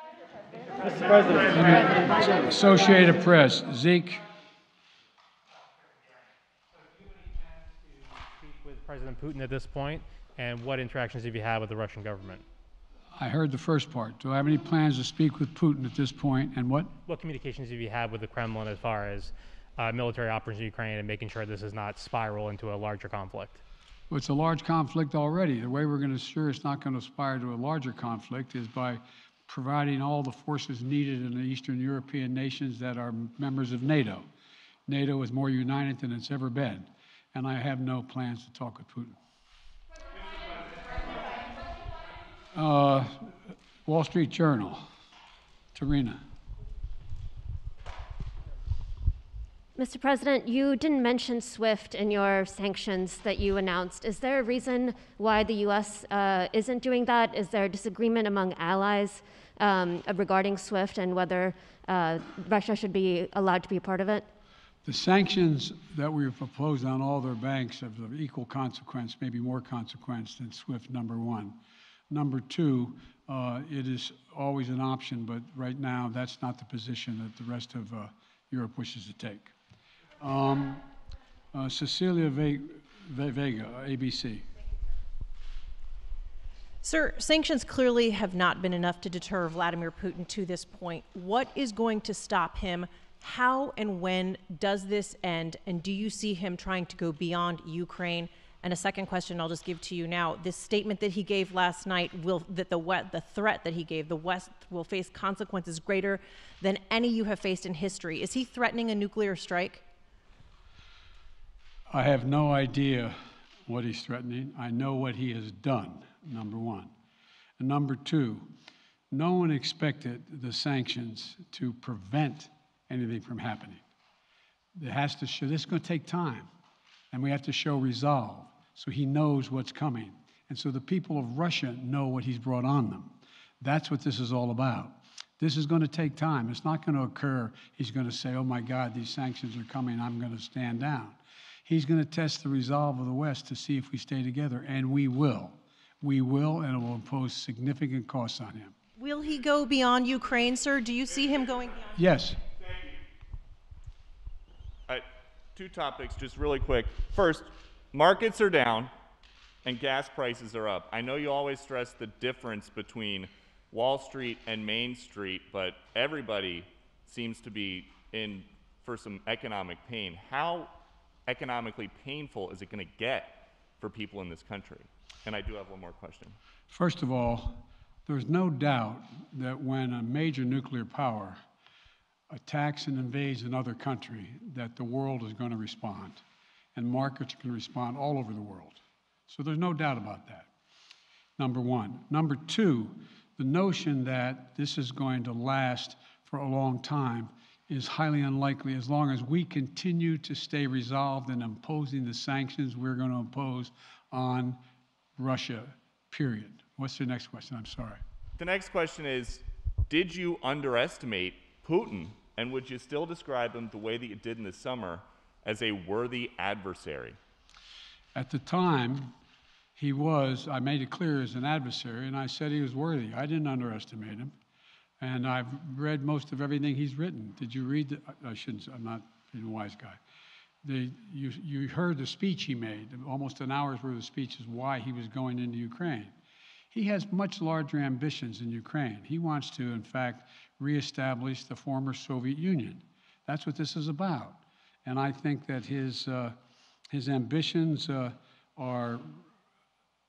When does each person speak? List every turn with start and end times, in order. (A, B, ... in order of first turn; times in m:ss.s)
0:00.7-0:01.4 A
0:01.5-0:04.2 B
0:06.8-0:12.4 A
0:13.2-0:16.9 B
0:17.0-0:23.6 A
0:24.1-0:34.3 B
0:34.9-0:39.2 B
0:42.5-0:44.9 B
0:45.8-0:46.2 B
0:49.8-1:04.3 C
1:04.8-1:11.6 B
1:12.1-1:19.5 B
1:20.2-1:20.8 B
1:21.5-1:24.4 B
1:26.8-1:49.8 D
1:51.9-1:56.9 B
1:57.6-1:58.5 B
1:59.1-2:03.8 B
2:04.8-2:06.5 B
2:07.1-2:28.7 B
2:29.0-2:31.9 D
2:32.0-2:32.4 B
2:32.5-2:33.0 E
2:34.9-2:38.9 E
2:39.6-2:50.8 E
2:51.3-2:56.4 E
2:56.7-3:01.4 B
3:02.3-3:06.2 B
3:06.8-3:10.5 B
3:11.4-3:24.6 B
3:25.2-3:28.0 B
3:28.4-3:37.2 E
3:38.2-3:39.1 B
3:39.8-3:44.3 B
3:45.0-3:50.0 B
3:50.6-3:56.1 B
3:56.7-4:06.4 B
4:06.9-4:09.2 B